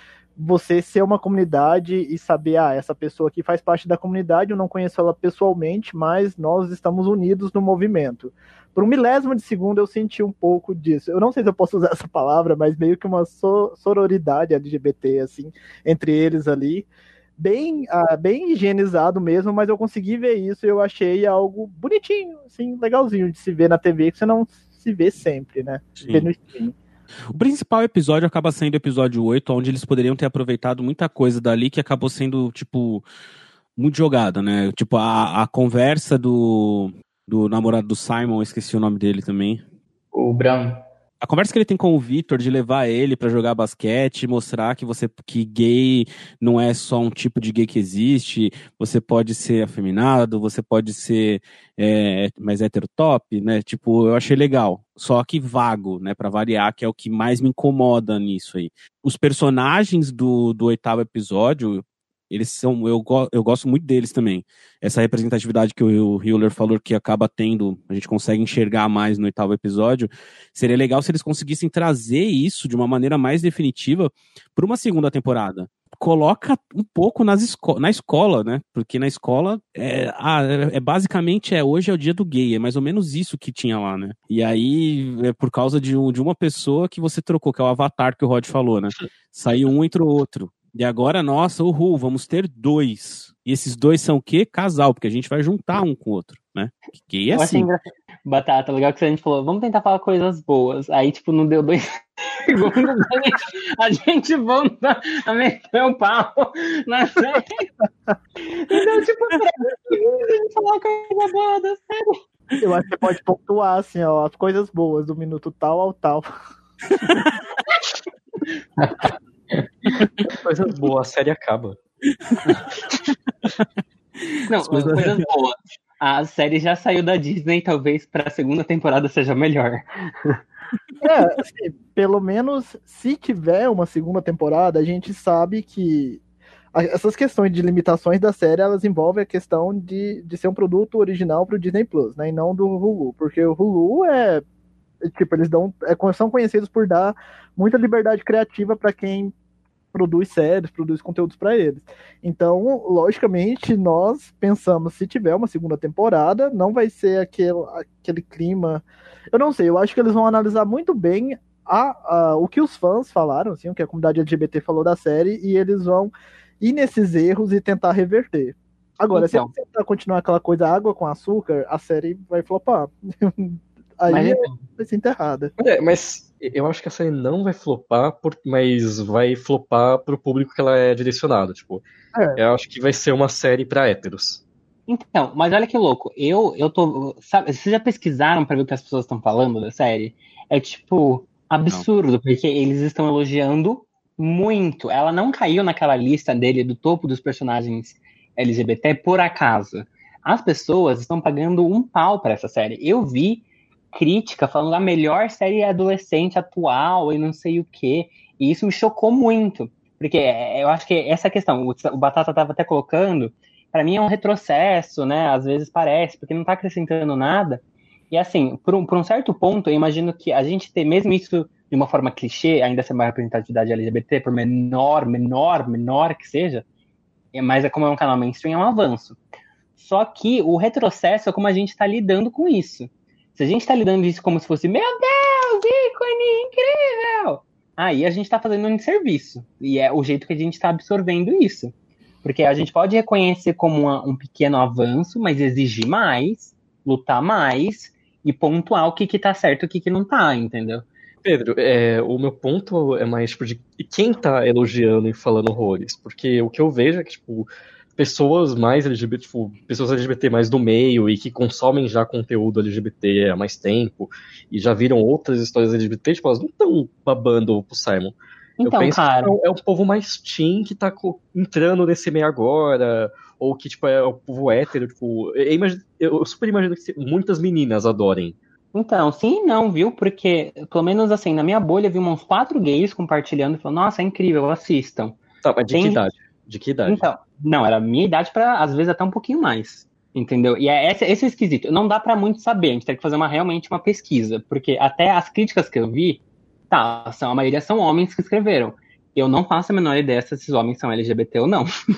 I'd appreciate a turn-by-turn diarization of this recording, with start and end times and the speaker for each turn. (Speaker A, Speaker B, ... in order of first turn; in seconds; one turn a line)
Speaker A: 0.3-26.8
Speaker B: 26.0-26.3
Speaker B: 27.3-33.0
Speaker B: 33.8-39.6
Speaker C: 40.1-40.8
Speaker B: 41.2-97.7
Speaker D: 97.3-107.6
Speaker D: 108.5-112.2
Speaker A: 112.6-116.3
Speaker C: 118.8-120.0
Speaker E: 120.3-121.8
Speaker B: 124.2-125.2
Speaker D: 124.5-130.4
Speaker A: 131.0-136.2
Speaker A: 136.7-144.4
Speaker A: 145.0-149.3
Speaker A: 149.9-175.5
Speaker D: 169.1-169.5
Speaker D: 174.1-174.6
Speaker E: 175.6-181.8
Speaker E: 182.3-184.4
Speaker D: 184.9-226.6
Speaker D: 227.3-229.2
Speaker D: 229.8-250.8
Speaker E: 251.2-278.4
Speaker D: 268.6-269.4
Speaker D: 278.7-285.2
Speaker E: 285.4-287.0
Speaker D: 285.7-286.0
Speaker D: 286.9-301.7